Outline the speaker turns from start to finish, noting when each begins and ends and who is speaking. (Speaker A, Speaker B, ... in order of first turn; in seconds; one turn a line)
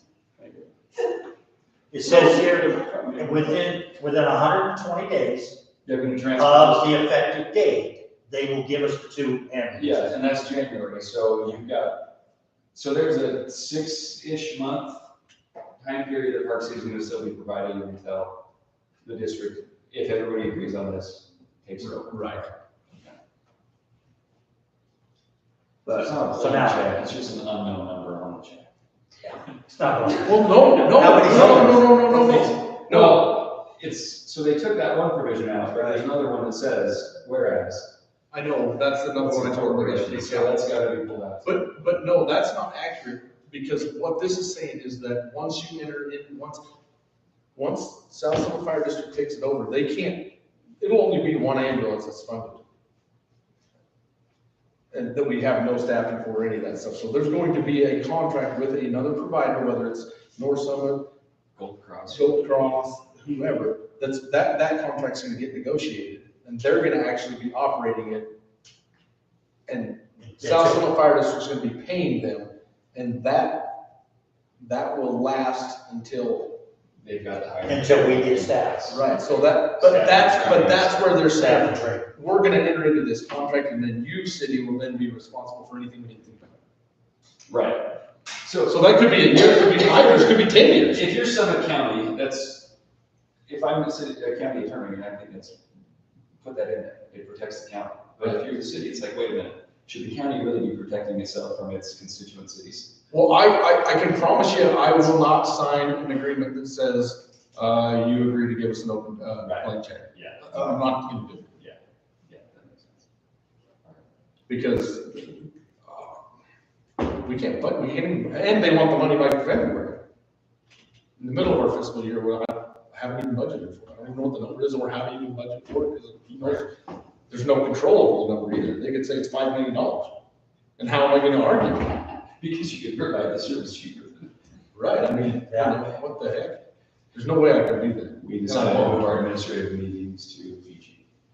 Speaker A: 0.4-0.7
Speaker B: 1.9-5.6
Speaker A: 2.0-3.7
Speaker A: 5.8-7.0
Speaker B: 6.3-10.2
Speaker A: 9.7-12.1
Speaker A: 12.7-15.0
Speaker A: 15.8-18.4
Speaker A: 19.0-23.1
Speaker C: 21.8-22.5
Speaker B: 25.8-27.1
Speaker A: 25.9-28.7
Speaker B: 29.2-32.5
Speaker C: 30.2-33.4
Speaker A: 31.3-38.0
Speaker C: 38.3-40.7
Speaker A: 39.1-41.7
Speaker C: 41.4-46.6
Speaker C: 47.5-52.6
Speaker C: 54.9-61.1
Speaker A: 61.5-62.4
Speaker C: 62.1-68.3
Speaker C: 69.7-73.8
Speaker B: 70.2-70.9
Speaker C: 74.6-76.6
Speaker A: 77.0-79.0
Speaker B: 77.6-79.0
Speaker C: 78.9-86.6
Speaker A: 79.8-81.1
Speaker B: 81.3-82.1
Speaker A: 87.5-92.7
Speaker C: 88.7-91.0
Speaker A: 93.5-95.6
Speaker A: 96.4-103.0
Speaker C: 103.1-111.5
Speaker A: 109.4-110.8
Speaker A: 111.6-113.0
Speaker C: 114.5-116.3
Speaker C: 117.0-120.0
Speaker C: 121.2-126.7
Speaker C: 127.3-130.2
Speaker C: 130.8-132.1
Speaker A: 132.4-134.3
Speaker C: 134.7-139.3
Speaker B: 135.5-135.8
Speaker A: 138.2-141.0